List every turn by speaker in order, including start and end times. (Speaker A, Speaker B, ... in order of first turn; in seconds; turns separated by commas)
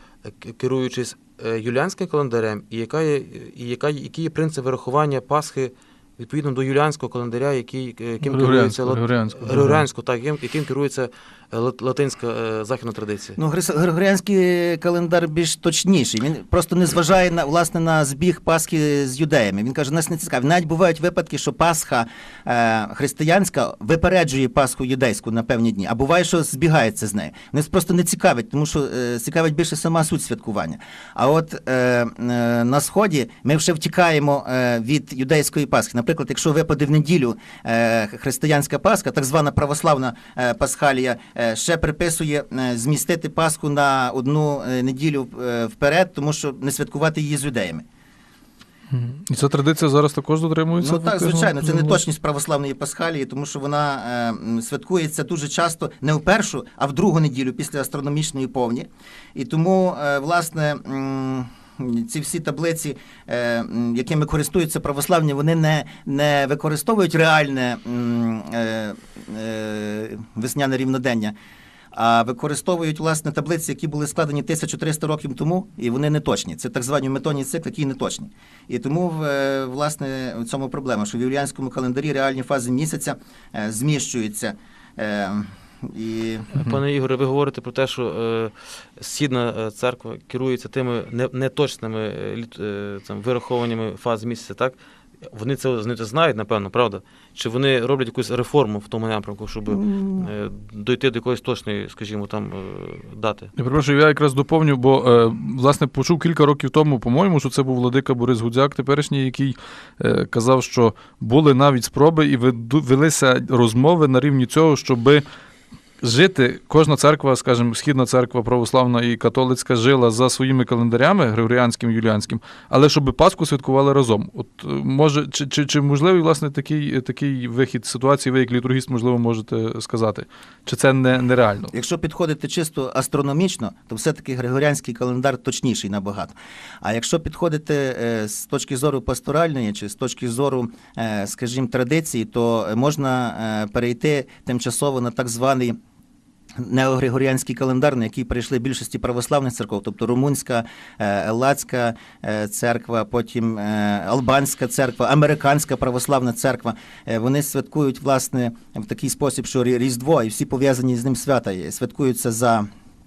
Speaker A: 0.2-13.4, Speaker B: 8.2-9.8, Speaker C: 13.4-47.8, Speaker B: 48.9-52.0, Speaker C: 50.8-71.3, Speaker C: 71.9-86.5, Speaker A: 86.5-103.5, Speaker C: 99.7-100.3, Speaker B: 103.5-115.2, Speaker B: 116.0-131.7, Speaker C: 131.7-145.8, Speaker C: 146.6-162.7